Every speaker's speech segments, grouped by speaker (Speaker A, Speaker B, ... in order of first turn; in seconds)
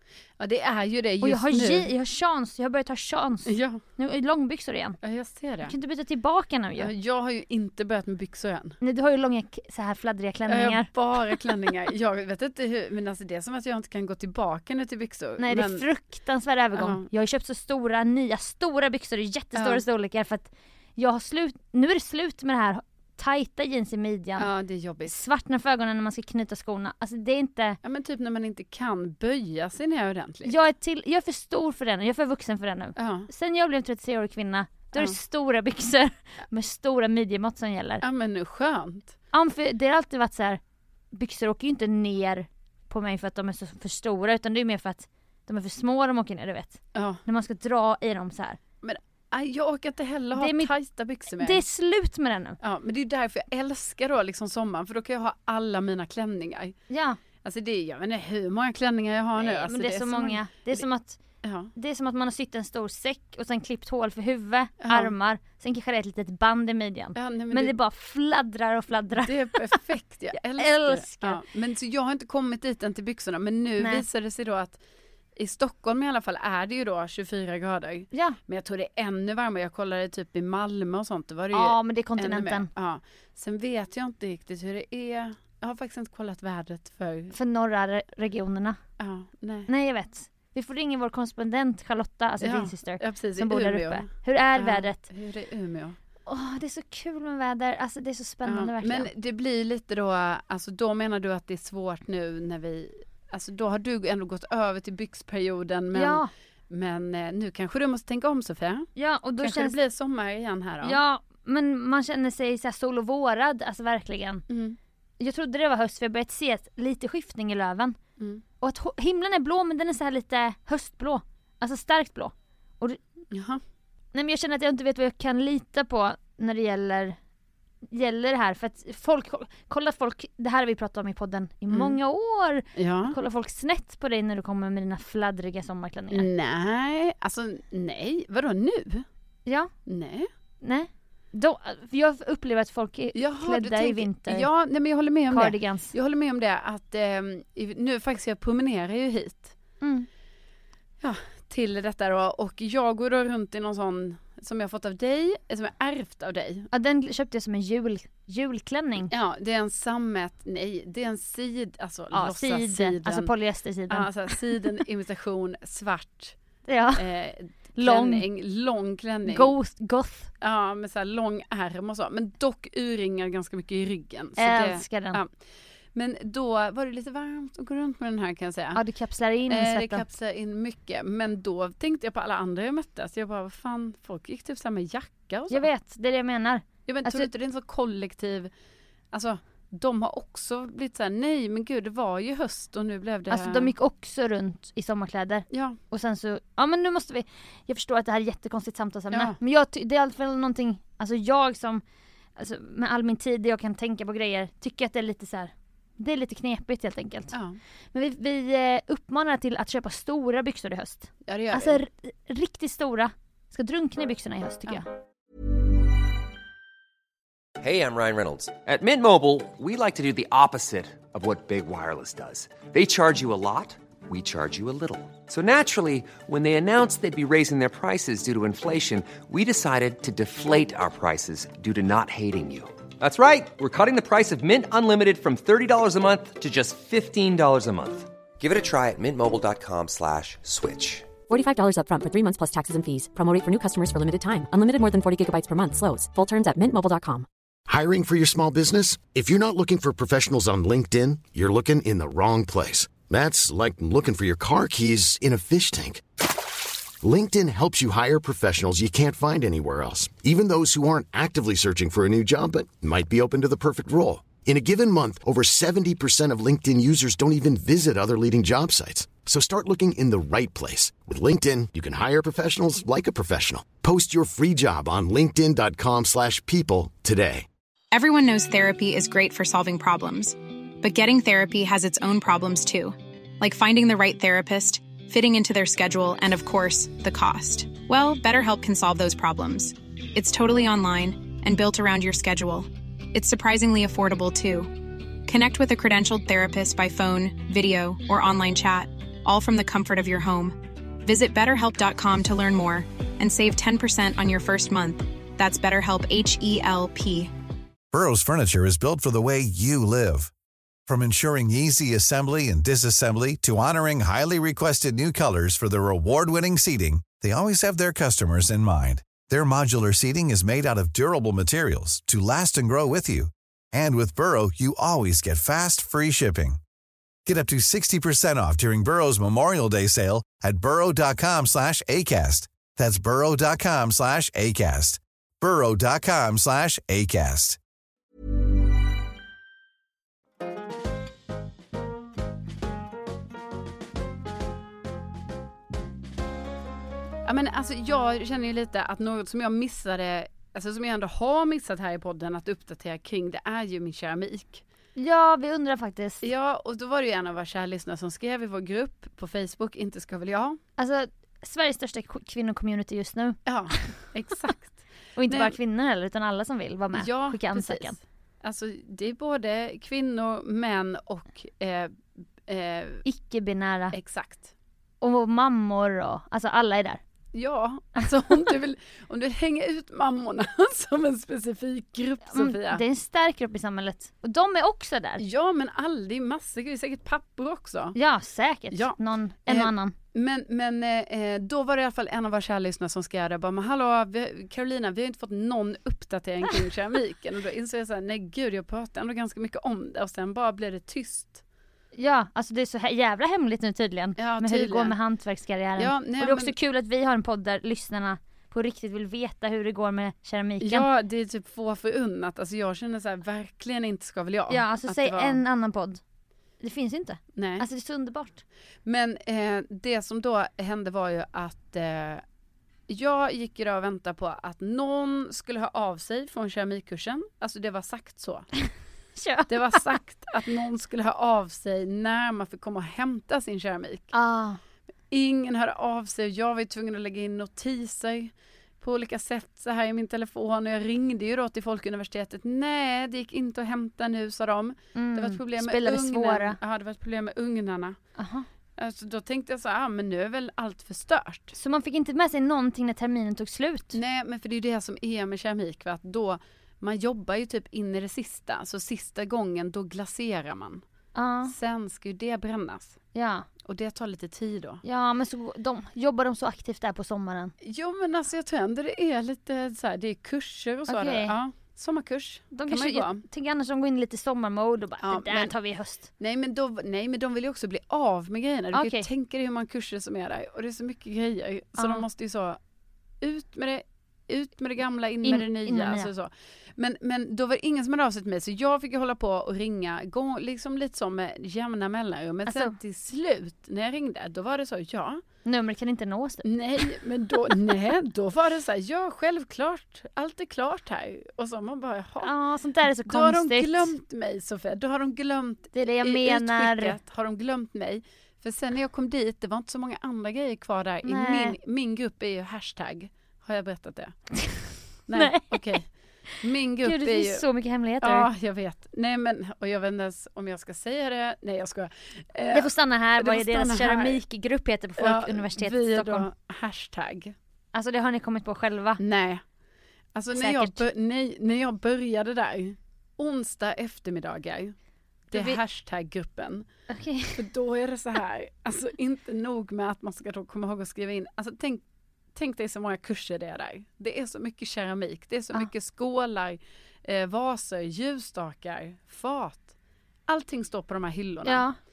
Speaker A: 0.4-1.9, 3.5-3.8, 5.0-5.7, 6.8-8.8, 10.5-15.8, 16.8-17.0, 19.5-19.8, 24.4-25.1, 27.8-30.6, 33.0-33.3, 38.0-39.1, 46.9-47.2, 48.8-51.6, 52.6-56.8, 57.4-60.8, 61.4-61.7, 64.8-65.1, 67.2-67.7, 69.2-74.8, 75.3-87.3, 89.0-89.7, 92.4-96.0, 98.4-111.0, 114.5-114.8, 123.3-123.6, 131.7-131.9, 132.8-133.2, 136.1-139.1, 139.9-140.3, 143.1-149.6, 151.0-156.7, 159.1-163.3, 163.9-166.3, 166.9-169.5, 170.4-175.3, 175.9-178.8, 179.5-185.7, 186.8-188.5, 189.1-193.7, 195.5-195.8, 199.1-199.3, 207.3-207.6, 211.2-211.8, 347.2-354.6, 356.2-360.6, 363.4-365.5, 366.9-373.0, 373.9-374.5, 377.3-382.8, 385.2-387.9, 388.7-401.4, 404.2-404.9, 405.8-406.5, 410.6-415.4, 417.3-417.6, 418.8-422.2, 422.9-428.5, 429.5-434.1, 435.1-448.0, 448.8-451.5, 453.9-460.8, 461.5-463.0, 463.6-464.8, 467.6-473.2, 475.0-475.5, 476.2-482.6, 483.2-495.2, 496.4-502.3, 503.0-514.1, 515.1-515.8, 516.4-517.4, 518.0-524.2, 525.0-527.3, 529.0-529.4, 530.1-534.7, 535.3-536.7, 537.4-541.8, 542.3-549.7, 550.3-551.6
Speaker B: 1.2-5.0, 5.6-6.9, 8.8-10.9, 15.4-24.5, 25.1-27.8, 30.4-38.0, 39.3-40.6, 41.1-48.6, 50.3-50.7, 51.3-52.6, 56.9-57.2, 59.4-61.2, 61.7-69.4, 70.6-71.4, 73.8-74.0, 78.1-78.4, 81.5-82.7, 87.3-88.8, 89.7-95.0, 96.2-99.1, 105.9-106.3, 109.0-109.8, 110.8-114.4, 115.2-118.0, 118.6-123.0, 124.1-127.2, 127.9-136.3, 139.4-139.7, 140.6-144.5, 145.3-145.9, 149.8-150.1, 156.7-159.1, 162.1-164.1, 166.7-167.1, 167.8-168.3, 169.2-170.3, 174.4-175.2, 178.7-180.1, 185.5-187.3, 193.3-201.8, 202.3-207.3, 207.9-214.9, 354.9-356.2, 360.8-363.4, 365.1-368.0, 373.0-373.9, 375.0-377.0, 382.3-385.2, 387.9-389.9, 401.9-410.9, 414.5-416.0, 416.6-418.4, 429.2-429.8, 434.1-434.6, 444.9-446.6, 448.2-448.5, 451.5-454.0, 461.1-461.5, 463.1-463.5, 464.8-467.5, 470.9-471.4, 472.5-476.1, 478.7-479.1, 481.8-482.0, 485.2-486.1, 492.4-492.8, 495.4-496.4, 502.2-503.9, 505.7-507.0, 511.0-511.6, 515.1-515.8, 516.8-518.3, 522.5-526.3, 527.7-529.0, 530.3-530.8, 535.3-535.6, 536.9-537.5, 551.4-551.8
Speaker C: 217.6-241.1
Speaker D: 241.3-247.3
Speaker E: 247.7-277.5
Speaker F: 277.9-307.3
Speaker G: 307.9-310.3, 310.9-326.6, 327.2-337.6